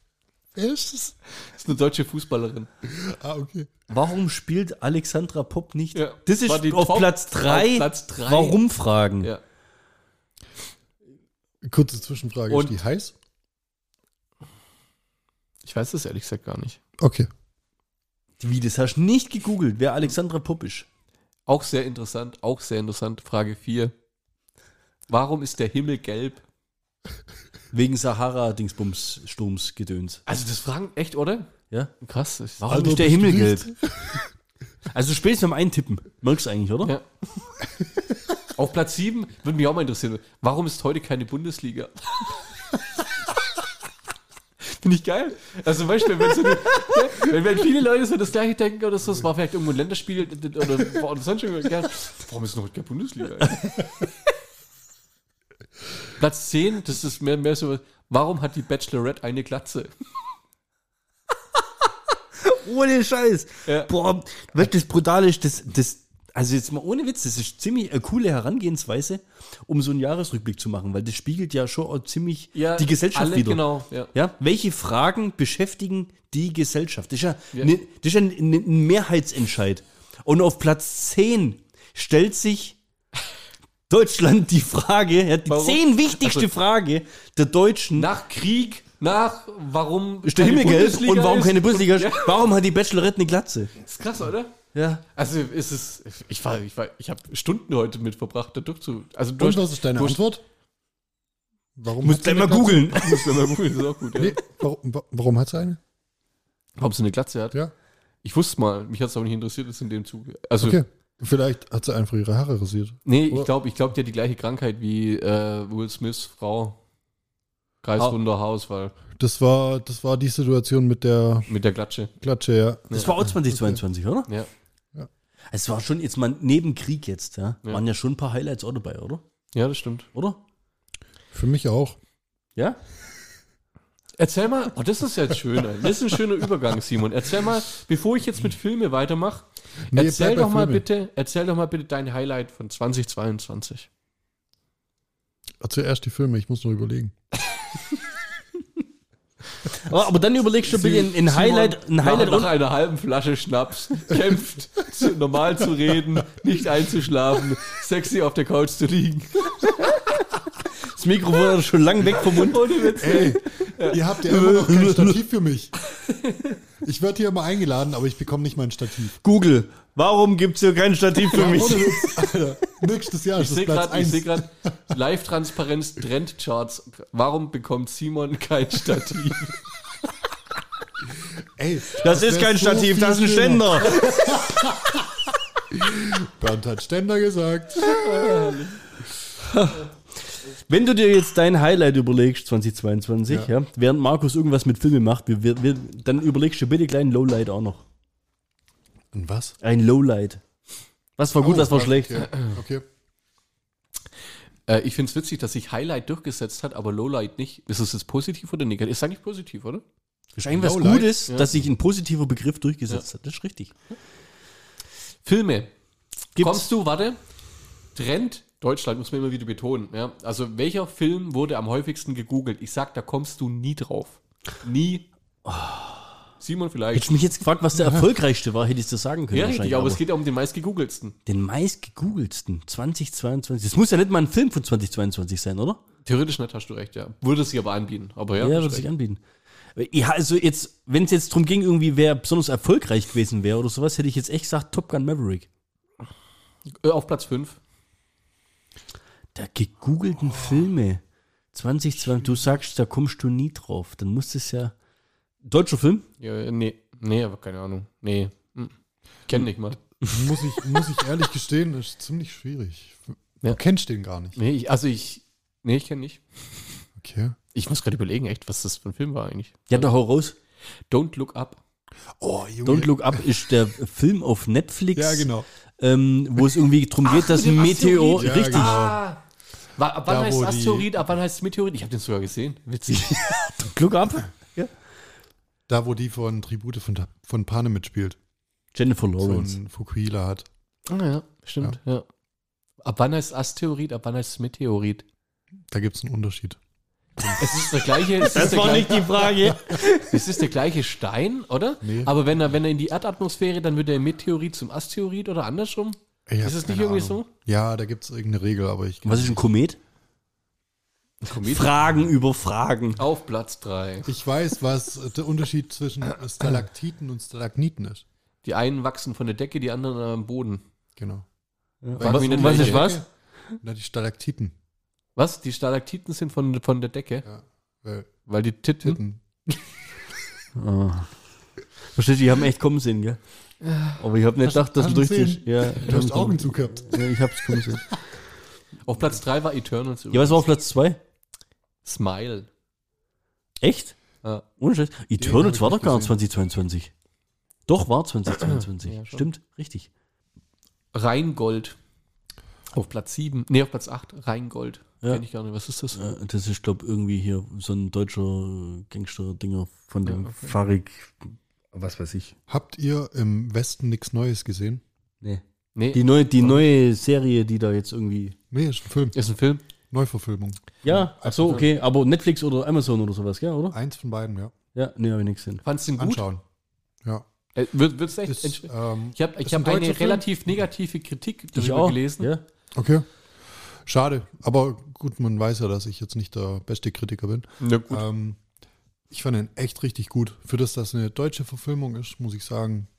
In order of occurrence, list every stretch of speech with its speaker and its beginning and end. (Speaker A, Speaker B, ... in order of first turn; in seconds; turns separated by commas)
Speaker A: 0.5-1.1, Speaker B: 1.4-2.7, Speaker A: 2.9-3.8, Speaker C: 3.9-9.3, Speaker B: 5.9-8.6, Speaker A: 11.6-13.1, Speaker B: 12.5-12.7, Speaker B: 15.6-16.8, Speaker A: 17.0-17.3, Speaker C: 18.4-20.9, Speaker B: 21.5-23.9, Speaker B: 25.1-26.4, Speaker C: 27.7-30.2, Speaker B: 30.2-31.5, Speaker B: 32.0-33.2, Speaker C: 32.7-33.7, Speaker A: 32.7-34.2, Speaker C: 34.9-36.9, Speaker B: 38.5-42.4, Speaker B: 44.6-54.1, Speaker B: 56.2-59.9, Speaker C: 62.4-82.8, Speaker B: 72.5-74.1, Speaker C: 83.9-88.1, Speaker B: 85.5-86.5, Speaker B: 87.9-92.5, Speaker C: 90.2-93.7, Speaker B: 93.8-94.5, Speaker C: 94.7-95.0, Speaker B: 95.2-100.2, Speaker A: 99.4-100.4, Speaker A: 101.7-102.9, Speaker C: 102.0-103.4, Speaker B: 102.8-104.4, Speaker A: 104.1-105.8, Speaker B: 106.8-107.6, Speaker B: 108.2-110.8, Speaker A: 110.6-113.5, Speaker B: 113.0-116.8, Speaker B: 117.8-118.9, Speaker A: 119.2-121.5, Speaker B: 121.5-122.1, Speaker A: 122.2-123.8, Speaker C: 122.9-124.3, Speaker C: 125.5-129.2, Speaker B: 129.5-130.1, Speaker C: 130.1-130.4, Speaker A: 131.3-132.0, Speaker B: 134.2-143.9, Speaker A: 139.9-140.8, Speaker A: 145.6-147.1, Speaker C: 149.8-152.6, Speaker B: 150.7-159.9, Speaker A: 155.9-156.4, Speaker C: 160.9-162.8, Speaker B: 162.2-164.0, Speaker A: 162.9-165.7, Speaker C: 164.2-165.2, Speaker B: 166.0-166.5, Speaker A: 166.8-169.2, Speaker C: 169.2-172.1, Speaker A: 171.3-174.4, Speaker B: 173.4-179.6, Speaker A: 181.6-185.1, Speaker C: 182.0-184.2, Speaker A: 185.7-188.0, Speaker B: 187.8-188.8, Speaker C: 189.4-197.8, Speaker A: 199.1-199.6, Speaker C: 199.6-200.4, Speaker C: 201.2-202.3, Speaker A: 201.4-202.8, Speaker B: 204.7-209.8, Speaker C: 210.3-213.7, Speaker A: 210.5-211.3, Speaker B: 215.2-215.7, Speaker C: 216.3-216.7, Speaker B: 216.4-217.2, Speaker B: 217.9-225.1, Speaker C: 225.4-226.1, Speaker B: 226.4-227.1, Speaker C: 226.9-230.0, Speaker B: 229.3-231.1, Speaker C: 231.2-235.8, Speaker B: 236.0-238.9, Speaker C: 238.4-239.2, Speaker C: 239.8-245.5, Speaker B: 246.8-247.6, Speaker C: 249.3-251.0, Speaker C: 251.5-254.7, Speaker A: 252.1-252.4, Speaker C: 255.4-256.1, Speaker B: 256.2-258.7, Speaker B: 259.3-259.8, Speaker A: 260.0-264.4, Speaker B: 264.3-266.2, Speaker A: 267.0-267.4, Speaker B: 267.5-269.9, Speaker C: 269.7-270.4, Speaker B: 270.9-271.6, Speaker A: 272.2-273.3, Speaker C: 272.6-278.8, Speaker A: 274.9-275.5, Speaker B: 277.0-279.2, Speaker A: 278.1-279.0, Speaker B: 279.8-283.4, Speaker A: 280.1-280.9, Speaker C: 282.9-284.7, Speaker A: 285.7-288.2, Speaker C: 288.7-289.6, Speaker A: 289.2-290.4, Speaker B: 290.9-292.0, Speaker B: 292.8-295.0, Speaker A: 295.7-296.6, Speaker A: 297.2-297.5, Speaker B: 297.4-299.3, Speaker C: 298.2-300.4, Speaker A: 298.6-299.8, Speaker B: 300.0-307.3, Speaker A: 301.8-302.1, Speaker A: 306.3-309.4, Speaker C: 309.0-309.8, Speaker B: 311.2-311.7, Speaker C: 311.4-313.0, Speaker B: 313.0-314.1, Speaker A: 314.1-318.0, Speaker B: 318.4-320.6, Speaker A: 321.0-321.2, Speaker C: 321.8-323.0, Speaker A: 321.9-323.1, Speaker B: 322.0-322.9, Speaker A: 323.6-324.5, Speaker B: 325.1-327.2, Speaker A: 327.2-328.1, Speaker B: 328.3-329.0, Speaker A: 328.8-329.8, Speaker C: 330.6-331.1, Speaker C: 331.9-333.2, Speaker B: 333.6-334.0, Speaker C: 334.0-337.9, Speaker A: 334.4-337.8, Speaker B: 338.8-340.4, Speaker C: 340.1-341.0, Speaker B: 341.8-342.5, Speaker C: 343.6-343.9, Speaker C: 344.6-346.9, Speaker A: 345.2-346.1, Speaker C: 347.7-349.9, Speaker B: 348.8-349.2, Speaker B: 350.9-351.8, Speaker B: 352.7-356.0, Speaker C: 355.9-362.4, Speaker B: 360.0-360.5, Speaker A: 362.5-364.8, Speaker B: 365.7-366.0, Speaker C: 365.9-368.4, Speaker A: 368.5-369.2, Speaker B: 369.1-369.6, Speaker A: 369.9-371.6, Speaker C: 370.8-373.8, Speaker A: 373.7-374.5, Speaker C: 374.7-375.6, Speaker B: 375.6-376.2, Speaker A: 376.0-376.4, Speaker B: 377.5-382.3, Speaker A: 378.2-380.3, Speaker C: 381.5-382.4, Speaker A: 382.7-383.1, Speaker A: 383.8-388.4, Speaker B: 387.6-388.0, Speaker A: 389.1-392.9